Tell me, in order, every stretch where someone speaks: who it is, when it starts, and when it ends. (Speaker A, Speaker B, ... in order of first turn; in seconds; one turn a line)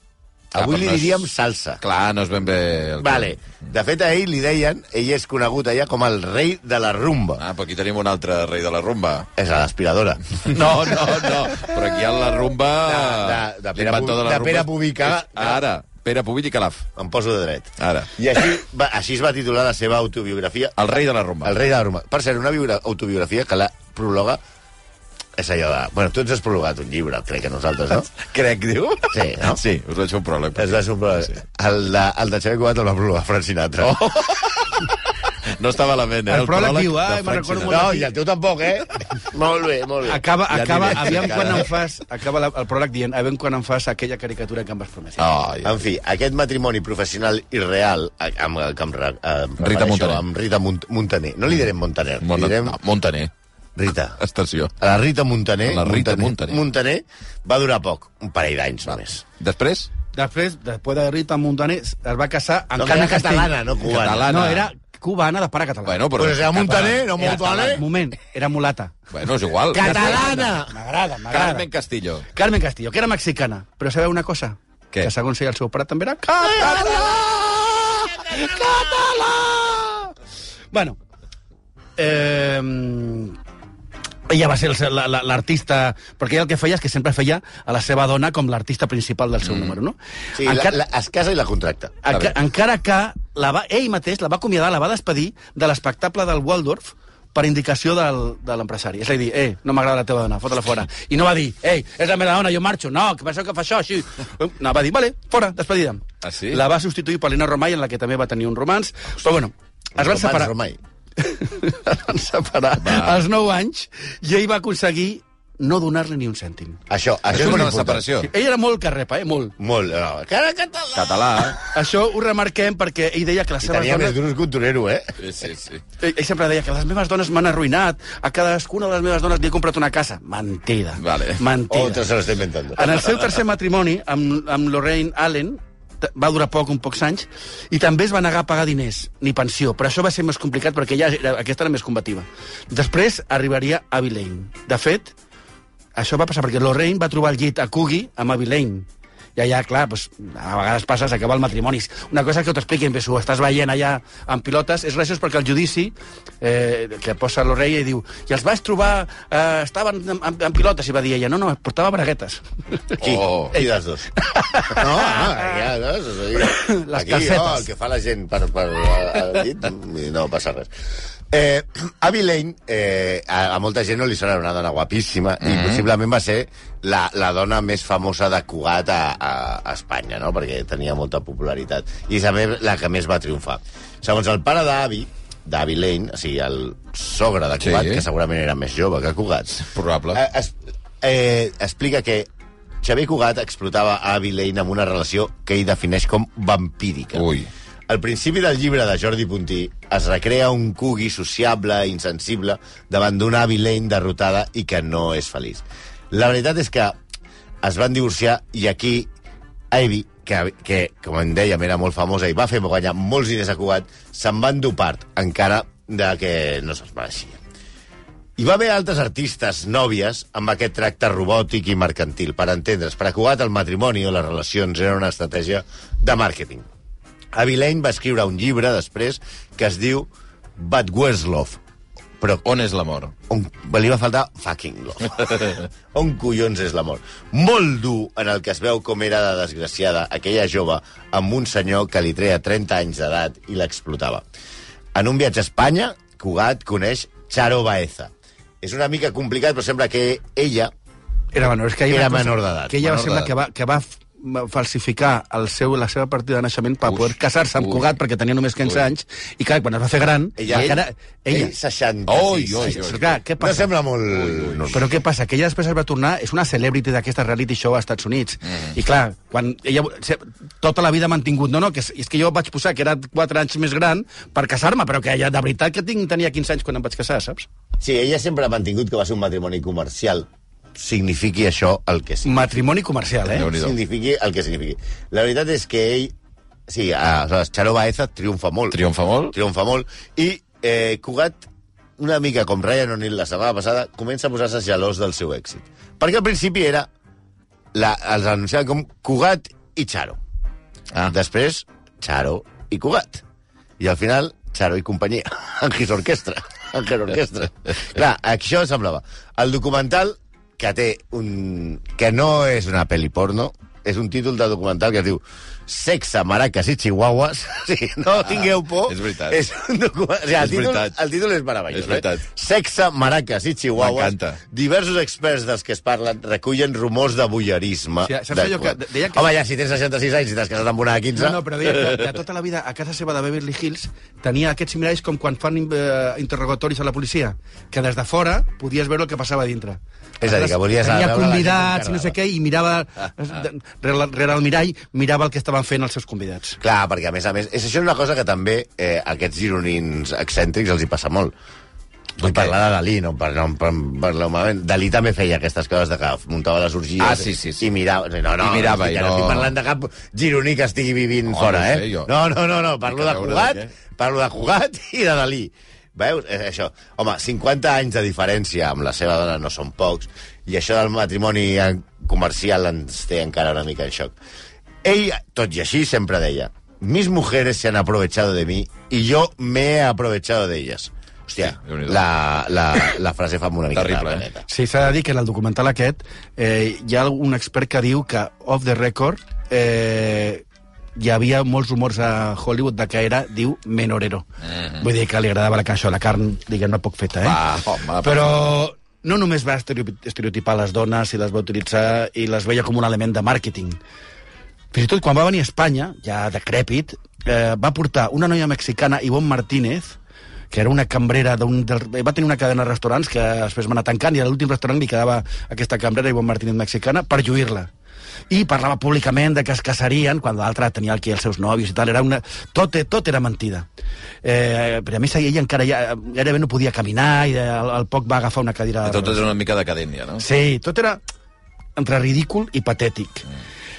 Speaker A: 0.5-1.8
Speaker B: 0.6-1.2
Speaker B: 1.8-3.3
Speaker A: 3.0-7.4
Speaker B: 7.4-9.3
Speaker A: 9.4-11.8
Speaker B: 10.5-16.9
Speaker A: 12.8-15.6
Speaker A: 17.0-20.8
Speaker B: 17.8-18.1
Speaker B: 20.8-21.6
Speaker A: 21.4-24.4
Speaker A: 25.4-28.1
Speaker B: 28.1-31.4
Speaker A: 29.1-29.6
Speaker A: 30.6-34.0
Speaker B: 33.8-34.9
Speaker B: 35.5-37.9
Speaker C: 36.3-38.1
Speaker A: 37.7-40.2
Speaker C: 40.0-45.3
Speaker B: 40.5-41.7
Speaker A: 40.9-41.6
Speaker B: 45.2-45.8
Speaker A: 45.6-52.8
Speaker B: 49.6-50.2
Speaker B: 52.2-53.3
Speaker A: 53.8-54.2
Speaker B: 54.2-54.7
Speaker A: 54.8-59.2
Speaker B: 55.7-56.6
Speaker B: 59.4-59.9
Speaker C: 60.1-63.5
Speaker A: 62.8-64.3
Speaker B: 63.9-64.7
Speaker C: 64.3-66.1
Speaker B: 65.9-67.8
Speaker A: 66.2-67.8
Speaker C: 67.2-69.0
Speaker B: 69.1-70.5
Speaker A: 69.7-70.7
Speaker C: 69.8-71.7
Speaker B: 71.3-72.3
Speaker C: 72.3-77.1
Speaker B: 76.6-79.9
Speaker A: 76.8-77.1
Speaker C: 80.7-81.0
Speaker C: 82.0-83.4
Speaker C: 84.3-90.8
Speaker B: 89.5-89.7
Speaker A: 90.4-92.0
Speaker C: 92.0-110.5
Speaker B: 106.2-106.6
Speaker A: 110.0-110.8
Speaker C: 111.2-116.8
Speaker B: 112.8-113.2
Speaker A: 116.9-118.1
Speaker B: 117.3-118.3
Speaker C: 118.2-119.5
Speaker A: 119.6-121.6
Speaker B: 121.0-121.6
Speaker C: 121.7-124.2
Speaker A: 123.6-125.1
Speaker B: 125.2-125.8
Speaker C: 126.0-132.1
Speaker B: 131.0-131.4
Speaker A: 131.7-133.0
Speaker C: 132.8-145.1
Speaker C: 146.0-163.0
Speaker A: 163.0-164.1
Speaker B: 163.0-163.5
Speaker C: 163.5-165.3
Speaker A: 164.7-170.7
Speaker C: 166.4-167.7
Speaker A: 171.3-192.3
Speaker B: 175.4-175.8
Speaker B: 187.6-188.1
Speaker B: 189.7-190.2
Speaker A: 192.8-197.3
Speaker B: 197.2-197.5
Speaker A: 197.9-207.0
Speaker A: 207.6-209.1
Speaker A: 209.7-217.4
Speaker A: 218.4-226.7
Speaker A: 227.3-231.6
Speaker A: 232.2-232.4
Speaker B: 232.4-233.1
Speaker A: 233.3-244.2
Speaker A: 244.9-250.7
Speaker C: 251.3-261.5
Speaker A: 251.9-253.3
Speaker B: 256.9-257.9
Speaker A: 260.4-264.9
Speaker B: 260.5-260.8
Speaker B: 262.1-263.2
Speaker C: 262.6-263.7
Speaker B: 264.1-264.7
Speaker C: 264.7-277.5
Speaker A: 277.8-282.6
Speaker C: 282.2-283.5
Speaker B: 283.3-283.8
Speaker A: 283.4-286.1
Speaker A: 286.7-291.4
Speaker B: 288.7-289.4
Speaker A: 292.0-296.9
Speaker A: 297.7-300.2
Speaker A: 301.1-303.2
Speaker A: 303.8-331.4
Speaker B: 318.3-319.4
Speaker B: 320.4-321.0
Speaker B: 321.7-322.2
Speaker B: 323.8-324.4
Speaker C: 328.0-329.3
Speaker C: 331.1-346.6
Speaker A: 340.2-342.2
Speaker A: 346.6-351.4
Speaker A: 352.2-374.1
Speaker B: 352.2-352.5
Speaker B: 357.0-357.7
Speaker B: 358.4-359.5
Speaker B: 361.3-362.1
Speaker B: 362.9-363.7
Speaker A: 374.8-384.5
Speaker B: 381.4-382.0
Speaker B: 383.7-384.3
Speaker C: 384.5-390.4
Speaker C: 391.0-394.3
Speaker B: 394.5-394.8
Speaker C: 394.8-397.4
Speaker B: 397.2-398.5
Speaker C: 398.0-403.8
Speaker C: 404.7-410.0
Speaker C: 410.5-417.7
Speaker C: 418.3-423.7
Speaker C: 424.2-429.2
Speaker B: 428.8-430.2
Speaker C: 430.2-431.0
Speaker C: 431.8-433.3